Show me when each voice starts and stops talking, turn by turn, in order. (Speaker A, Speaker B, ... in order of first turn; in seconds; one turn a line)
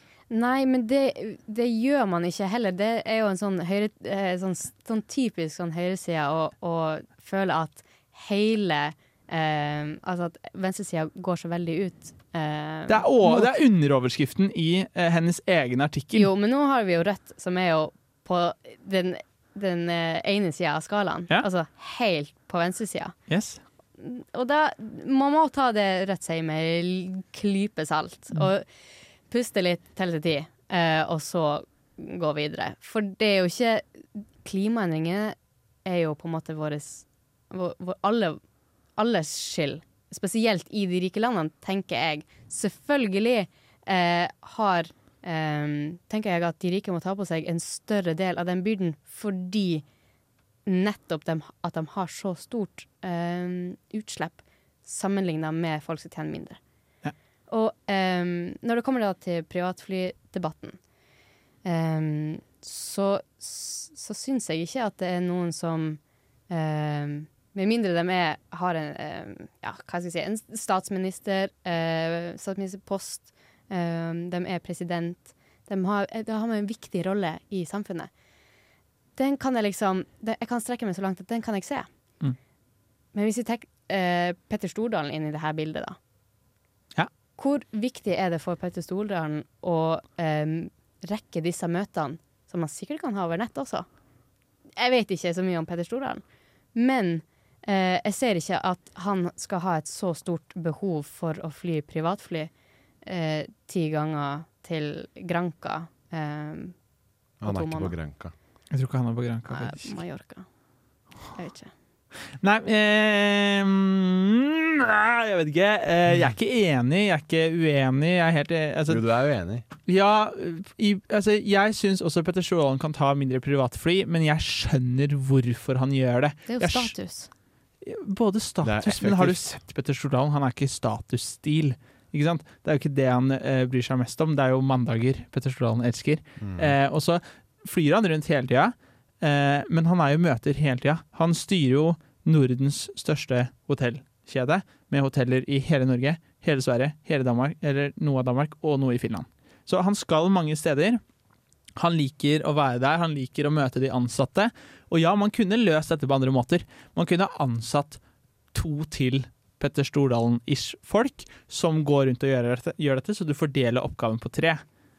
Speaker A: 0.3-13.5
Speaker B: 12.9-16.3
Speaker A: 16.1-23.1
Speaker B: 23.3-23.6
Speaker A: 24.0-28.6
Speaker A: 29.3-38.4
Speaker A: 39.0-49.8
Speaker A: 50.6-56.6
Speaker A: 57.5-60.8
Speaker A: 61.6-78.1
Speaker A: 79.2-81.9
Speaker A: 83.1-86.0
Speaker A: 87.4-93.9
Speaker A: 94.8-96.2
Speaker A: 96.8-102.5
Speaker A: 103.0-106.8
Speaker C: 107.4-108.3
Speaker A: 107.4-108.0
Speaker B: 108.7-110.0
Speaker A: 109.5-110.5
Speaker A: 111.3-111.7
Speaker B: 112.4-119.0
Speaker C: 118.9-119.6
Speaker B: 119.9-126.9
Speaker A: 126.5-127.3
Speaker B: 127.8-151.0
Speaker C: 128.6-129.5
Speaker C: 136.4-136.7
Speaker B: 151.8-158.0
Speaker B: 158.5-164.6